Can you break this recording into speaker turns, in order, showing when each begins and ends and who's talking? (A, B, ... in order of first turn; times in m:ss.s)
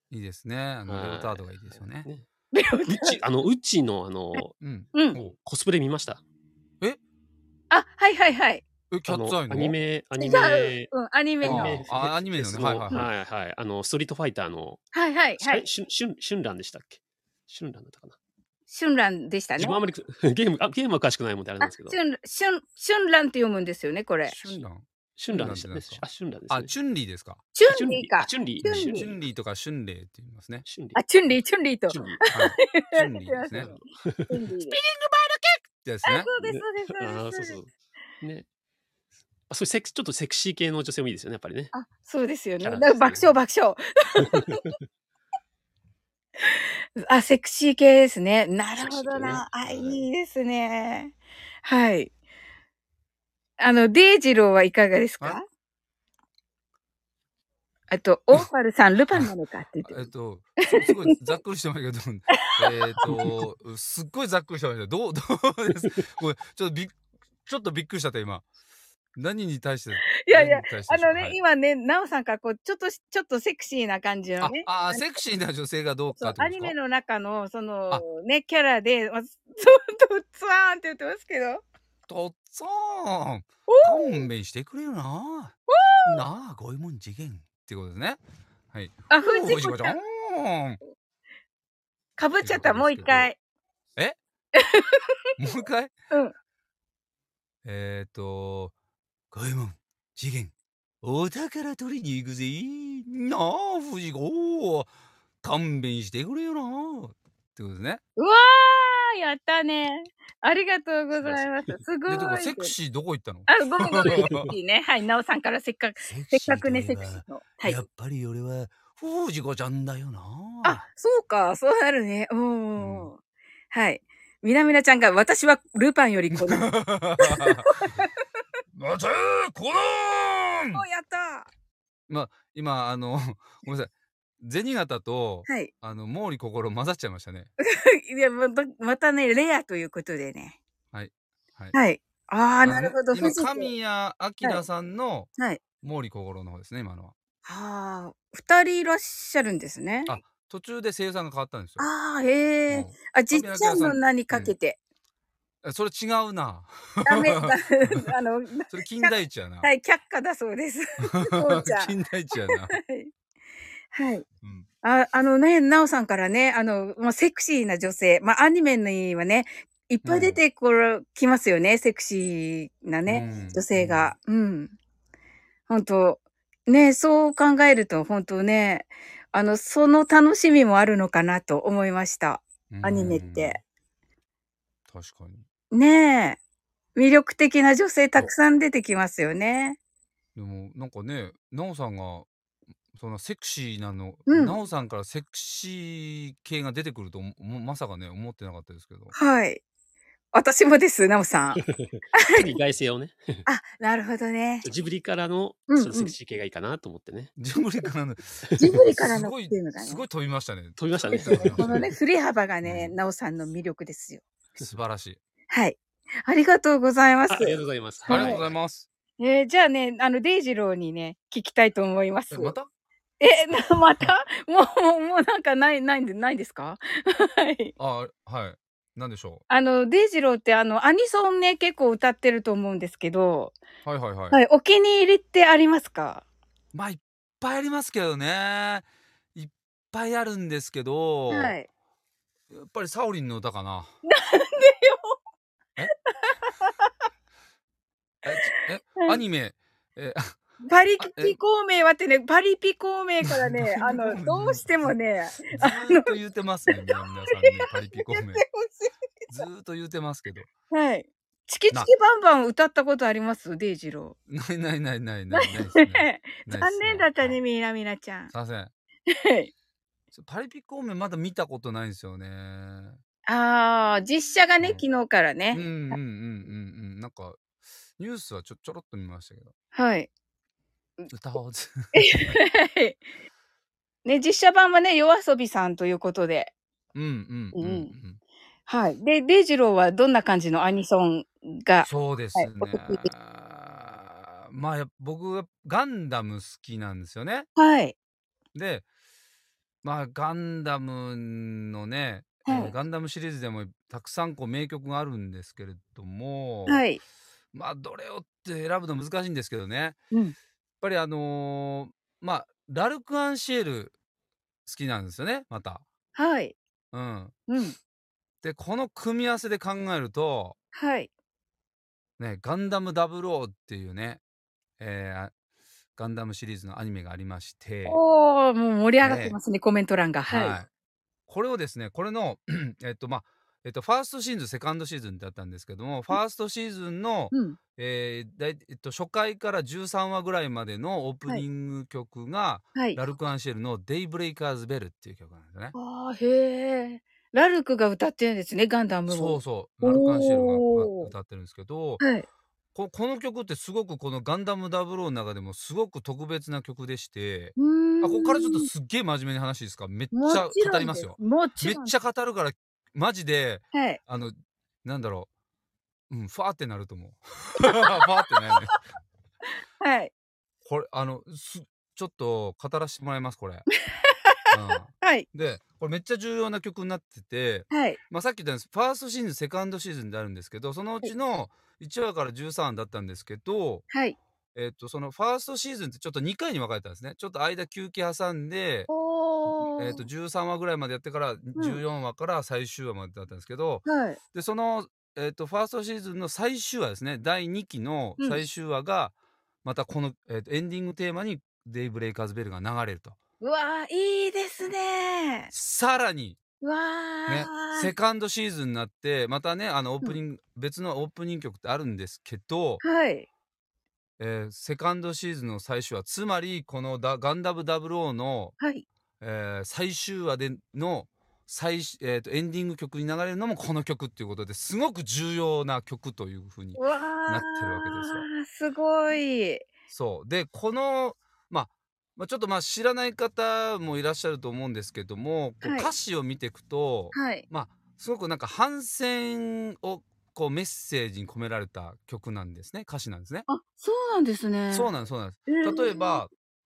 0:00.1-0:02.1 A
0:00.9-0:02.3 B
0:02.5-0:03.2 C
0:02.9-0:04.5 B
0:04.6-0:05.4 A
0:05.4-0:06.2 B
0:07.7-0:08.6 C
0:08.9-0:09.8 A
0:09.1-0:14.8 B
0:10.2-0:11.8 C
0:11.4-0:13.1 A
0:14.9-0:15.6 C
0:15.4-0:18.2 B
0:18.7-0:19.8 C
0:19.6-0:22.0 B
0:21.6-0:24.5 C
0:24.3-0:27.5 A
0:25.2-0:26.7 B
0:27.5-0:29.1 C
0:27.6-0:29.2 B
0:28.7-0:30.7 A
0:30.6-0:31.4 B
0:31.0-0:34.8 C
0:31.9-0:32.2 B
0:32.3-0:33.8 A
0:33.6-0:34.4 B
0:34.7-0:36.3 A
0:36.0-0:37.6 C
0:36.4-0:38.5 B
0:39.5-0:41.7 B
0:41.7-0:44.6 C
0:42.6-0:43.3 B
0:44.2-0:44.7 B
0:46.4-0:51.1 C
0:48.7-0:50.0 B
0:51.6-0:52.1 C
0:53.6-0:55.4 C
0:57.9-1:00.1 C
0:59.8-1:08.5 A
1:03.1-1:03.4 B
1:09.2-1:11.4 A
1:10.2-1:15.2 C
1:14.4-1:16.8 A
1:16.2-1:21.6 C
1:22.1-1:28.2 A
1:23.7-1:24.3 C
1:25.7-1:26.2 C
1:28.7-1:30.8 A
1:29.1-1:30.0 C
1:32.2-1:33.4 C
1:32.4-1:33.3 A
1:34.6-1:35.1 C
1:35.4-1:35.9 A
1:37.6-1:38.7 A
1:39.3-1:44.9 A
1:45.4-1:48.0 A
1:48.2-1:52.7 C
1:51.2-1:51.8 B
1:52.1-1:54.5 A
1:53.5-1:57.8 C
1:54.0-1:54.5 B
1:56.0-2:00.8 A
2:00.6-2:03.2 C
2:02.8-2:03.1 A
2:03.7-2:08.1 C
2:06.3-2:07.9 A
2:08.8-2:10.8 A
2:10.7-2:11.5 C
2:12.1-2:17.5 A
2:17.6-2:20.6 C
2:20.9-2:21.8 A
2:21.7-2:23.7 C
2:22.6-2:27.1 A
2:27.4-2:30.2 C
2:30.1-2:31.9 A
2:31.8-2:34.8 C
2:32.7-2:34.5 A
2:35.6-2:38.1 A
2:37.0-2:41.9 C
2:38.7-2:39.7 A
2:41.1-2:42.8 A
2:42.5-2:43.1 C
2:43.9-2:44.2 C
2:44.8-2:54.7 C
2:50.0-2:50.4 A
2:53.1-2:54.1 A
2:55.7-3:03.6 C
3:02.7-3:03.6 A
3:04.9-3:05.4 A
3:05.7-3:06.4 C
3:07.0-3:09.8 C
3:10.4-3:12.3 A
3:12.9-3:19.1 A
3:14.3-3:14.6 C
3:19.1-3:19.6 C
3:20.3-3:21.6 C
3:21.6-3:23.4 B
3:22.2-3:22.5 C
3:23.5-3:24.7 C
3:24.6-3:27.3 B
3:25.7-3:26.1 C
3:27.4-3:31.9 A
3:28.6-3:30.0 C
3:30.8-3:31.9 B
3:31.1-3:34.2 C
3:32.6-3:32.9 A
3:34.6-3:35.2 A
3:35.5-3:38.4 C
3:37.3-3:38.5 B
3:38.1-3:38.9 A
3:39.2-3:42.6 C
3:42.3-3:42.7 A
3:43.2-3:47.7 C
3:47.8-3:49.4 A
3:49.5-3:53.6 C
3:53.8-3:54.4 A
3:54.3-3:56.2 C
3:56.7-4:01.6 A
4:01.3-4:01.7 C
4:02.5-4:03.9 A
4:04.0-4:05.2 C
4:06.2-4:06.7 C
4:08.2-4:10.4 A
4:10.7-4:16.1 C
4:11.0-4:11.4 A
4:13.3-4:14.9 A
4:15.5-4:18.4 A
4:16.7-4:19.3 C
4:19.3-4:20.5 A
4:20.7-4:24.2 C
4:24.3-4:27.4 A
4:25.3-4:28.3 C
4:28.3-4:28.7 A
4:29.1-4:29.5 C
4:30.1-4:33.0 A
4:33.3-4:36.0 C
4:35.5-4:37.4 A
4:38.0-4:39.5 A
4:39.7-4:40.1 C
4:41.1-4:42.4 A
4:42.0-4:43.0 C
4:44.0-4:46.5 C
4:47.0-4:48.2 A
4:47.5-4:47.9 C
4:48.7-4:53.1 C
4:51.8-4:57.5 A
4:57.6-4:58.0 C
4:58.5-4:58.8 A
4:59.8-5:06.9 A
5:02.5-5:02.7 C
5:06.7-5:07.0 C
5:07.5-5:10.0 A
5:10.8-5:13.9 A
5:14.7-5:15.8 A
5:16.2-5:16.6 C
5:16.9-5:17.4 A
5:17.5-5:17.8 C
5:18.4-5:20.6 A
5:20.8-5:21.1 C
5:22.2-5:24.2 A
5:24.8-5:25.3 A
5:26.0-5:28.0 A
5:27.9-5:30.6 C
5:29.0-5:29.4 A
5:30.3-5:30.7 A
5:31.3-5:45.8 A
5:37.3-5:37.6 C
5:45.7-5:51.1 C
5:49.1-5:52.0 A
5:52.0-5:52.3 C
5:52.8-6:05.3 A
5:57.6-5:58.7 C
6:00.1-6:01.9 C
6:03.7-6:04.0 C
6:06.1-6:08.8 A
6:09.8-6:10.1 C
6:10.7-6:13.7 A
6:14.1-6:14.3 C
6:14.5-6:23.9 A
6:15.0-6:15.3 C
6:17.7-6:18.0 C
6:23.9-6:24.2 C
6:24.6-6:28.9 A
6:28.9-6:30.0 C
6:29.8-6:43.2 A
6:33.9-6:34.2 C
6:38.2-6:38.4 C
6:43.4-6:45.5 C
6:45.5-6:46.4 A
6:46.6-6:47.9 C
6:47.3-6:52.8 A
6:52.8-6:53.3 C
6:54.2-6:58.6 A
6:58.6-6:58.8 C
6:59.2-7:08.3 A
7:06.8-7:09.7 C
7:09.9-7:23.5 A
7:15.6-7:15.9 C
7:17.1-7:17.4 C
7:23.5-7:24.9 C
7:24.7-7:26.3 A
7:25.5-7:26.2 C